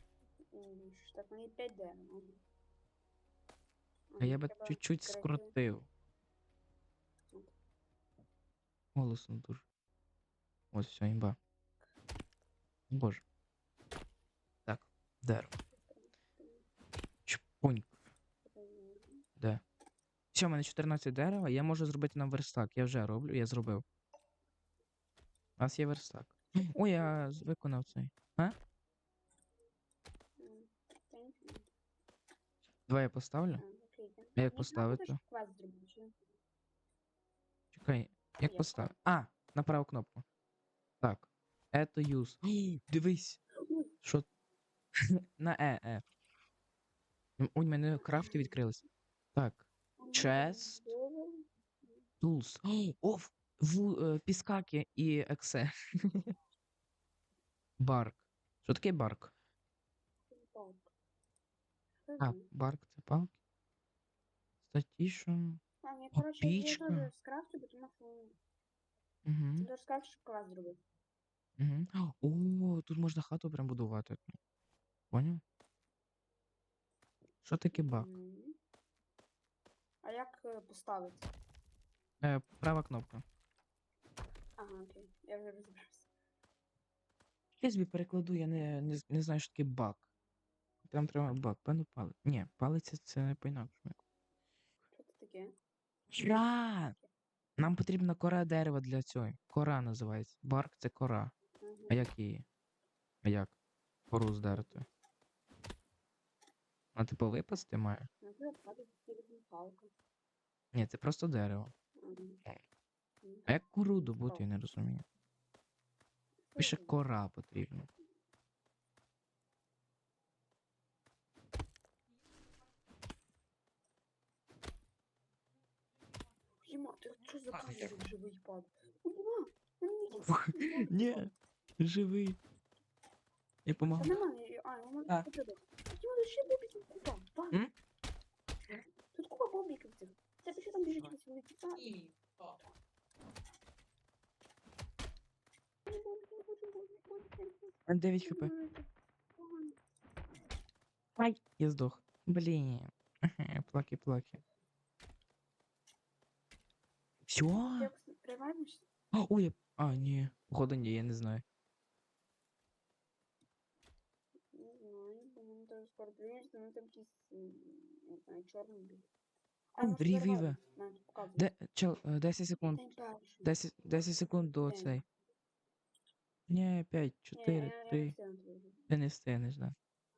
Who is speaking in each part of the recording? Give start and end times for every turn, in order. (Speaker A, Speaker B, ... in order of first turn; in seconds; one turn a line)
Speaker A: 0.5-2.4
Speaker A: 4.1-5.5
Speaker B: 4.2-5.9
Speaker B: 8.9-9.6
Speaker B: 10.7-11.4
Speaker B: 12.9-13.2
Speaker B: 14.7-15.5
Speaker A: 15.7-16.6
Speaker B: 17.2-17.9
Speaker A: 18.4-19.2
Speaker B: 20.3-23.8
Speaker B: 25.6-28.6
Speaker A: 26.5-27.5
Speaker A: 30.4-31.7
Speaker B: 32.9-33.6
Speaker A: 33.6-36.1
Speaker B: 34.4-35.2
Speaker B: 37.7-40.2
Speaker A: 38.4-38.9
Speaker B: 41.0-43.4
Speaker A: 43.5-43.9
Speaker B: 44.0-44.3
Speaker B: 45.1-46.0
Speaker B: 47.4-48.8
Speaker A: 48.0-48.5
Speaker B: 49.3-50.9
Speaker A: 50.0-52.0
Speaker B: 52.2-56.3
Speaker B: 57.8-59.3
Speaker A: 60.3-60.9
Speaker A: 62.0-62.5
Speaker B: 62.2-63.3
Speaker B: 64.7-65.6
Speaker A: 65.8-68.3
Speaker B: 66.1-67.1
Speaker B: 69.2-69.7
Speaker A: 69.6-70.8
Speaker B: 71.6-74.3
Speaker B: 75.1-75.4
Speaker B: 77.4-78.1
Speaker A: 77.7-78.6
Speaker A: 80.0-81.3
Speaker B: 82.2-83.2
Speaker A: 84.6-86.1
Speaker B: 87.6-90.0
Speaker B: 90.9-94.0
Speaker A: 94.9-95.5
Speaker B: 96.1-96.9
Speaker B: 97.6-101.3
Speaker A: 101.6-102.0
Speaker B: 101.9-102.5
Speaker B: 103.2-103.5
Speaker B: 104.1-104.8
Speaker A: 104.5-104.9
Speaker B: 106.9-108.1
Speaker A: 108.2-109.9
Speaker B: 110.7-111.7
Speaker A: 112.0-112.4
Speaker A: 113.2-113.5
Speaker B: 113.5-115.0
Speaker A: 114.1-114.5
Speaker A: 116.5-117.0
Speaker B: 116.6-117.9
Speaker A: 126.6-131.3
Speaker B: 127.5-127.9
Speaker B: 130.2-132.4
Speaker B: 133.7-134.2
Speaker A: 134.0-137.6
Speaker A: 139.1-142.0
Speaker A: 145.8-149.8
Speaker B: 147.8-148.5
Speaker B: 151.2-154.4
Speaker B: 157.3-157.9
Speaker A: 157.7-158.9
Speaker B: 159.1-161.4
Speaker A: 164.5-169.1
Speaker A: 169.8-171.5
Speaker B: 169.8-170.6
Speaker B: 171.3-172.8
Speaker A: 172.6-173.5
Speaker B: 173.4-175.0
Speaker A: 174.6-175.0
Speaker B: 176.5-178.1
Speaker A: 177.3-178.8
Speaker B: 178.9-179.7